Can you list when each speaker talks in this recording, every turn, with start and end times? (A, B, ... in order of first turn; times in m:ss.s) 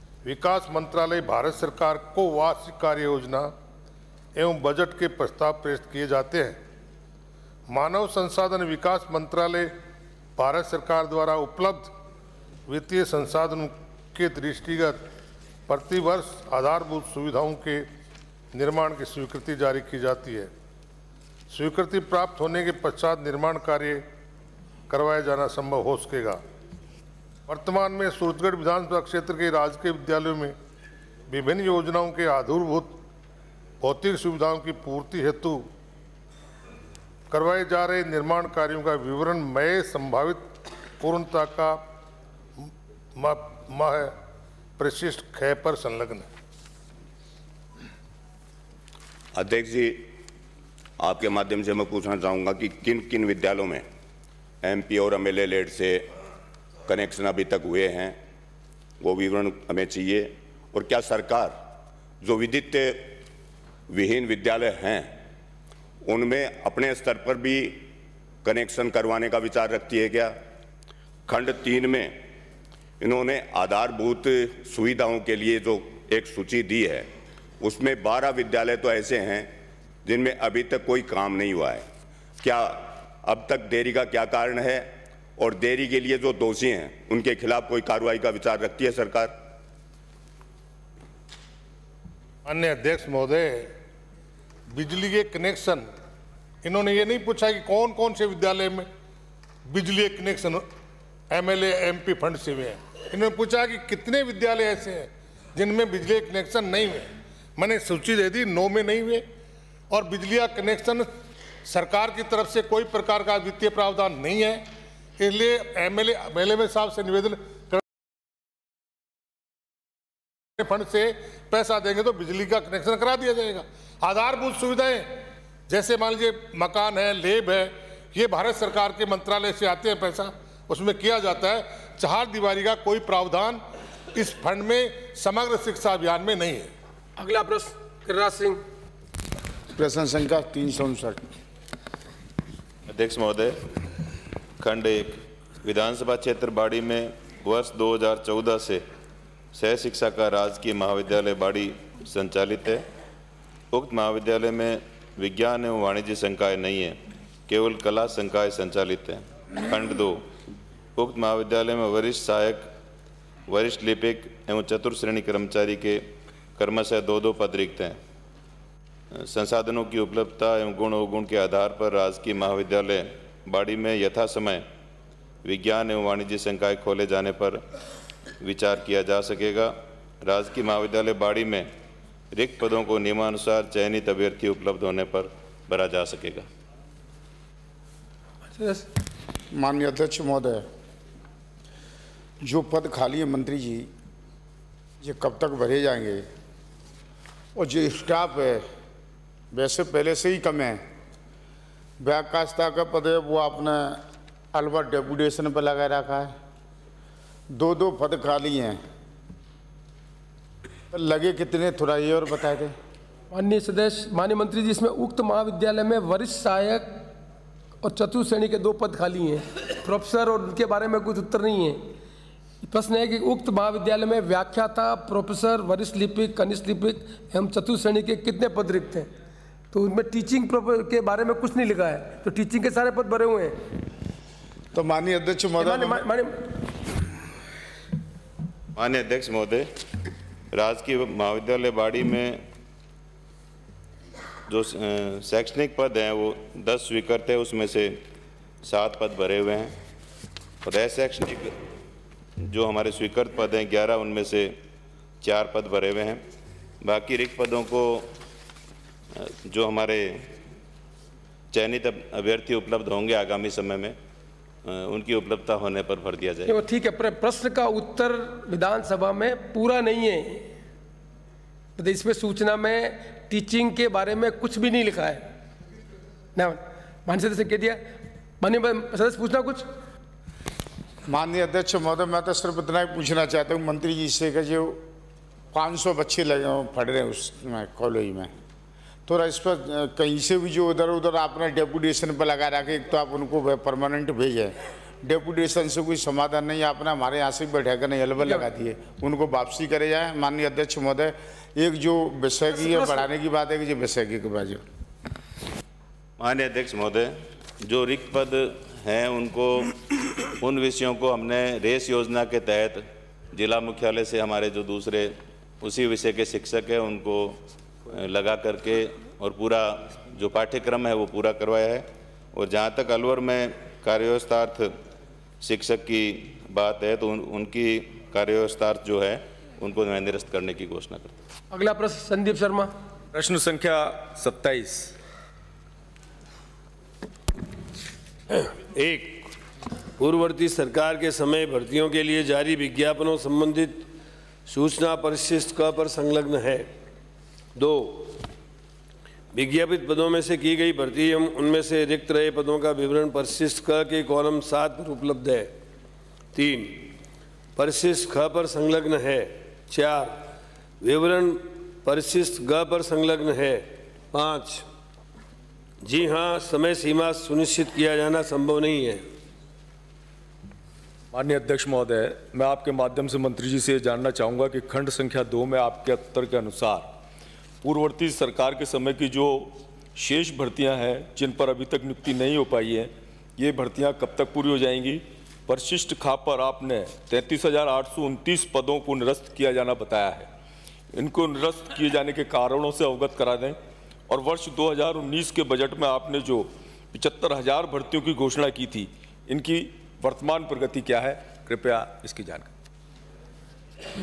0:00.2-0:03.5 A
0:04.4-0:06.6 A
0:07.7-0:09.7 A
0:10.4-0:11.9 A
0:12.7-0:15.0 A
0:15.7-0:17.9 A
0:18.5-0:20.5 A
0:21.5-0:24.0 A
0:24.9-0:26.4 A
0:27.5-0:30.6 A
0:31.3-0:33.0 A
0:33.8-0:35.7 A
0:37.3-0:41.8 A
0:43.2-0:44.1 A
0:44.8-0:46.3 A
0:49.3-0:50.1 B
0:51.0-0:53.9 B
0:54.6-0:56.1 B
0:56.9-0:58.2 B
0:59.0-1:01.6 B
1:02.2-1:03.2 B
1:03.9-1:05.2 B
1:06.0-1:07.9 B
1:08.4-1:10.4 B
1:11.3-1:12.2 B
1:13.0-1:17.1 B
1:17.6-1:19.5 B
1:20.0-1:21.9 B
1:22.4-1:29.3 B
1:32.4-1:33.7 A
1:34.7-1:35.9 A
1:36.6-1:38.9 A
1:39.7-1:40.6 A
1:41.3-1:49.2 A
1:49.9-1:51.1 A
1:51.6-1:54.6 A
1:55.2-1:57.8 A
2:00.6-2:13.6 A
2:14.1-2:16.7 A
2:17.2-2:18.6 C
2:19.8-2:21.2 D
2:22.9-2:23.7 E
2:24.6-2:28.8 E
2:29.5-2:32.8 E
2:33.7-2:40.2 E
2:41.0-2:42.7 E
2:43.5-2:46.1 E
2:46.6-2:48.0 E
2:49.1-2:54.7 E
2:55.4-2:57.6 E
2:58.4-3:01.7 E
3:02.3-3:06.5 E
3:08.5-3:08.9 C
3:09.5-3:10.7 D
3:12.4-3:13.9 D
3:15.0-3:16.3 D
3:17.6-3:18.7 D
3:19.5-3:20.8 D
3:22.0-3:26.3 D
3:27.5-3:28.8 D
3:30.9-3:32.7 D
3:33.3-3:37.0 C
3:37.8-3:41.9 C
3:42.6-3:49.1 C
3:49.7-3:53.6 C
3:54.7-3:56.0 D
3:55.6-3:56.4 C
3:58.8-3:59.7 E
4:00.5-4:02.4 E
4:04.5-4:08.0 E
4:08.6-4:09.8 E
4:10.6-4:11.6 E
4:12.4-4:14.6 E
4:15.2-4:16.2 E
4:16.8-4:18.1 E
4:19.2-4:20.3 E
4:21.5-4:24.0 E
4:24.6-4:26.6 E
4:26.5-4:30.5 C
4:31.8-4:35.2 C
4:36.4-4:39.7 C
4:41.1-4:44.8 D
4:45.5-4:48.3 D
4:49.1-5:04.6 D
5:02.7-5:03.0 C
5:06.2-5:09.7 E
5:10.4-5:24.7 E
5:25.4-5:31.1 E
5:31.5-5:32.7 C
5:33.1-5:34.9 F
5:38.3-5:39.3 G
5:40.0-5:43.9 G
5:44.5-5:46.7 G
5:47.6-5:48.2 G
5:49.3-5:55.5 G
5:56.3-5:57.0 G
5:57.6-6:00.2 G
6:00.8-6:04.7 G
6:05.8-6:09.0 G
6:11.1-6:16.9 F
6:17.6-6:30.3 F
6:30.9-6:33.6 F
6:34.1-6:42.5 F